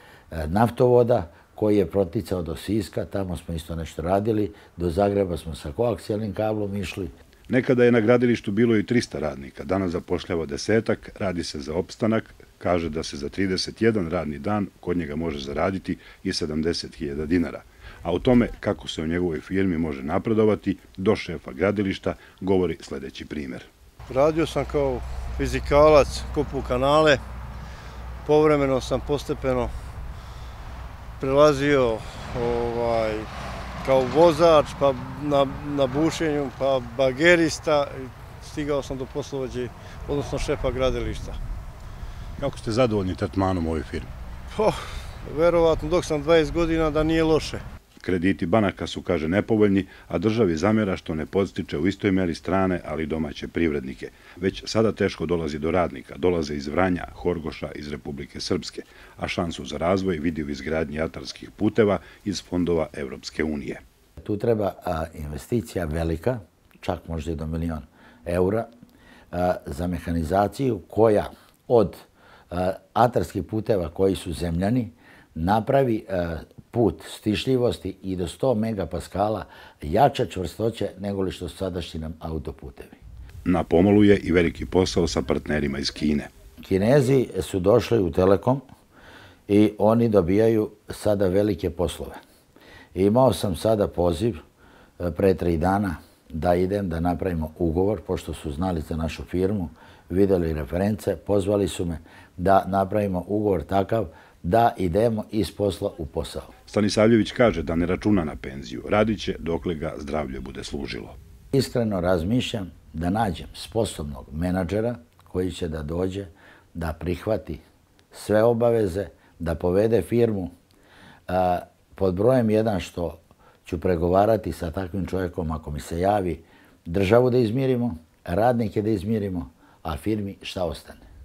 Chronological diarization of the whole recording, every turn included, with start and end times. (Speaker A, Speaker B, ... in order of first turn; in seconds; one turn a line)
Speaker A: 0.3-7.1
Speaker B: 7.5-23.7
Speaker C: 24.1-27.2
Speaker C: 28.2-29.7
Speaker C: 31.2-33.3
Speaker C: 33.8-41.4
Speaker B: 42.4-44.1
Speaker C: 44.5-47.6
Speaker B: 48.0-63.8
Speaker A: 64.2-68.7
Speaker A: 69.3-83.0
Speaker B: 83.5-86.3
Speaker A: 86.6-88.6
Speaker A: 89.5-92.2
Speaker A: 92.9-94.4
Speaker A: 95.0-106.5
Speaker B: 106.7-111.2
Speaker A: 111.5-120.5
Speaker A: 121.3-131.0